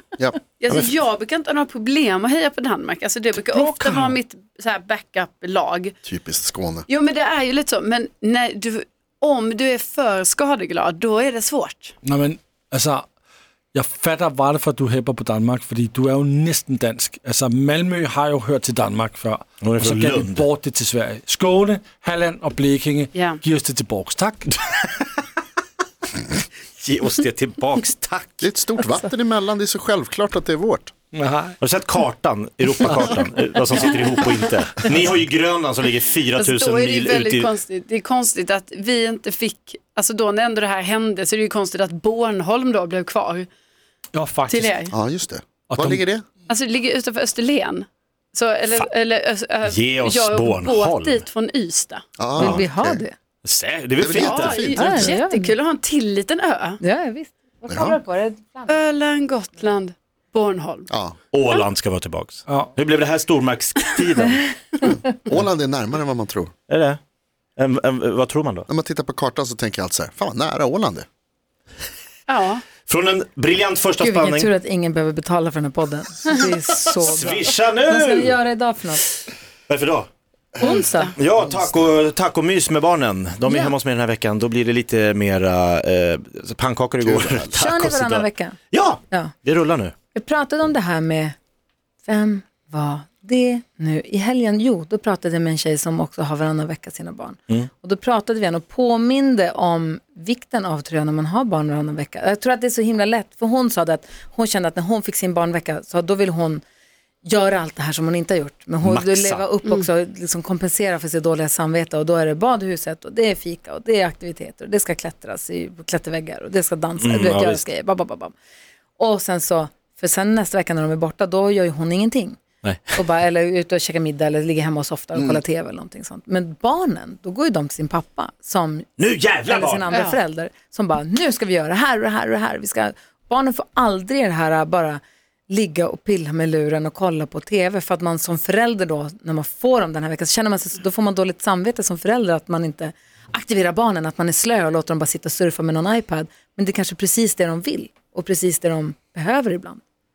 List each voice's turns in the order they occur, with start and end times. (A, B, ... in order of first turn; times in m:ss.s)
0:00.2-0:00.9 A
0:00.6-0:05.9 B
0:03.5-0:04.2 C
0:06.0-0:06.9 A
0:06.9-0:11.9 B
0:12.0-0:13.0 C
0:13.7-0:24.6 C
0:19.6-0:20.5 D
0:23.1-0:23.4 B
0:26.3-0:28.5 D
0:28.4-0:30.9 A
0:31.1-0:31.6 C
0:31.6-0:37.5 D
0:36.3-0:43.5 B
0:44.1-0:44.9 C
0:44.5-0:44.9 B
0:44.9-0:46.2 A
0:45.7-0:46.0 C
0:46.5-0:52.0 B
0:49.6-0:51.3 D
0:52.2-0:53.0 A
0:52.4-0:53.1 E
0:53.4-0:54.7 D
0:54.0-0:55.1 A
0:54.1-0:56.8 B
0:54.8-0:55.5 E
0:56.8-0:58.8 E
0:57.7-0:58.0 A
0:58.7-1:00.9 B
1:00.9-1:01.2 A
1:01.3-1:04.5 D
1:04.9-1:06.5 A
1:06.7-1:07.0 D
1:07.6-1:08.6 D
1:08.7-1:11.0 A
1:12.3-1:12.6 B
1:12.8-1:14.5 D
1:14.0-1:19.0 E
1:17.0-1:18.3 D
1:19.7-1:20.1 D
1:20.6-1:21.1 E
1:20.6-1:21.2 B
1:21.2-1:29.9 D
1:27.0-1:27.5 A
1:27.6-1:28.6 E
1:30.1-1:31.4 E
1:32.0-1:46.6 E
1:47.2-1:58.3 E
1:48.8-1:49.4 D
1:57.0-1:57.6 D
1:59.0-2:02.4 E
2:02.9-2:08.9 E
2:09.0-2:09.9 D
2:09.4-2:29.8 E
2:09.9-2:10.2 B